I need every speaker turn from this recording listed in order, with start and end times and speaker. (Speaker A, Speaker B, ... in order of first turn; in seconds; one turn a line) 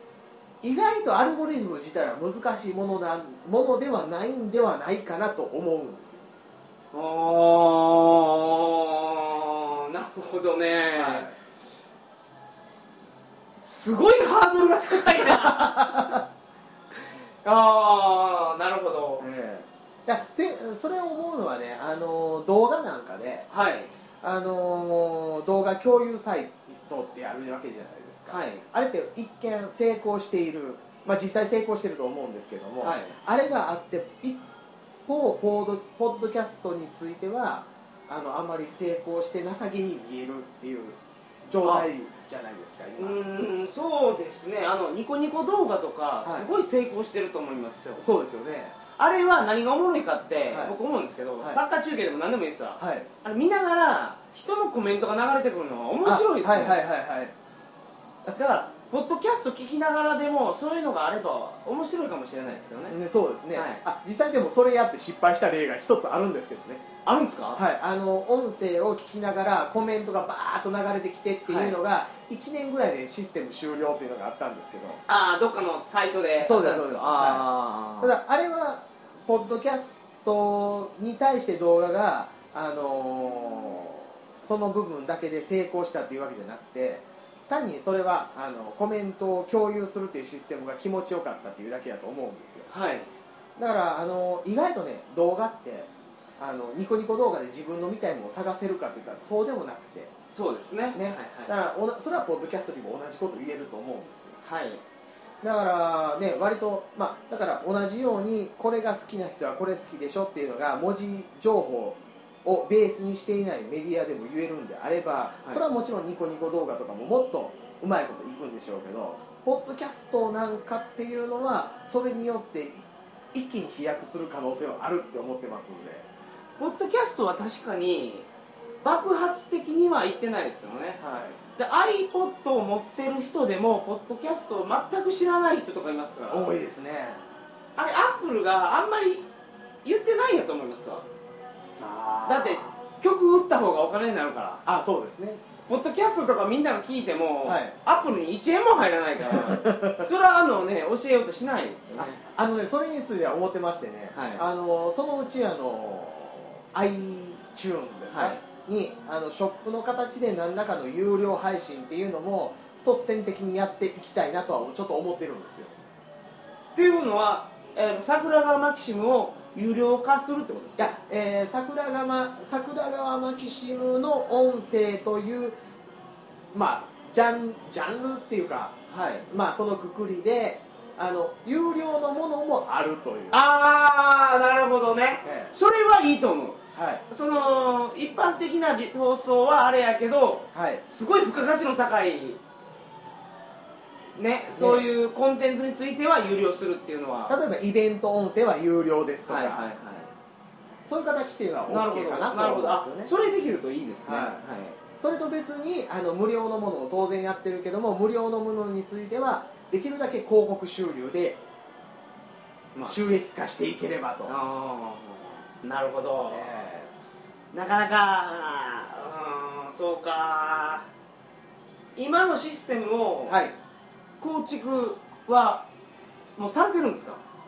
Speaker A: 0.6-6.2
Speaker B: 6.9-11.3
Speaker A: 10.9-11.3
Speaker B: 13.6-15.9
Speaker A: 15.4-16.2
Speaker B: 17.4-19.3
Speaker A: 19.2-23.5
Speaker B: 23.5-23.9
Speaker A: 24.2-34.4
Speaker B: 28.3-28.6
Speaker B: 32.8-33.1
Speaker A: 35.1-43.2
Speaker B: 43.0-48.0
Speaker A: 48.0-48.8
Speaker B: 49.0-56.8
Speaker A: 50.5-50.8
Speaker A: 52.8-53.1
Speaker A: 56.0-57.3
Speaker B: 58.3-63.0
Speaker A: 62.9-66.8
Speaker B: 63.5-63.8
Speaker B: 67.0-67.6
Speaker A: 67.5-75.0
Speaker B: 71.5-71.8
Speaker B: 75.1-78.1
Speaker A: 76.4-77.5
Speaker A: 78.0-92.7
Speaker B: 92.7-93.1
Speaker A: 93.6-100.1
Speaker B: 100.3-101.5
Speaker A: 100.9-104.4
Speaker B: 104.4-104.8
Speaker A: 105.4-126.1
Speaker B: 126.6-128.3
Speaker B: 128.8-131.0
Speaker A: 131.0-131.4
Speaker B: 131.6-136.5
Speaker A: 136.3-137.2
Speaker B: 137.8-139.3
Speaker B: 139.8-141.0
Speaker A: 141.8-142.7
Speaker B: 142.3-144.6
Speaker A: 144.7-145.4
Speaker B: 145.7-152.2
Speaker A: 147.4-147.8
Speaker A: 149.2-150.1
Speaker A: 152.0-165.7
Speaker B: 154.1-154.4
Speaker B: 158.1-158.4
Speaker B: 166.8-170.9
Speaker A: 170.8-175.6
Speaker A: 176.5-178.8
Speaker B: 178.9-179.2
Speaker A: 179.3-183.4
Speaker B: 183.3-192.4
Speaker A: 185.2-185.5
Speaker A: 186.7-187.0
Speaker A: 190.5-190.8
Speaker B: 194.2-197.4
Speaker A: 194.5-194.9
Speaker A: 197.3-199.6
Speaker B: 199.3-200.1
Speaker A: 200.8-203.1
Speaker B: 201.7-204.8
Speaker A: 204.1-204.4
Speaker A: 205.0-211.4
Speaker B: 212.7-213.2
Speaker A: 212.8-214.4
Speaker B: 214.3-216.5
Speaker A: 216.3-216.9
Speaker B: 217.5-220.9
Speaker B: 222.0-223.4
Speaker A: 223.3-223.6
Speaker B: 224.2-225.7
Speaker B: 226.2-227.2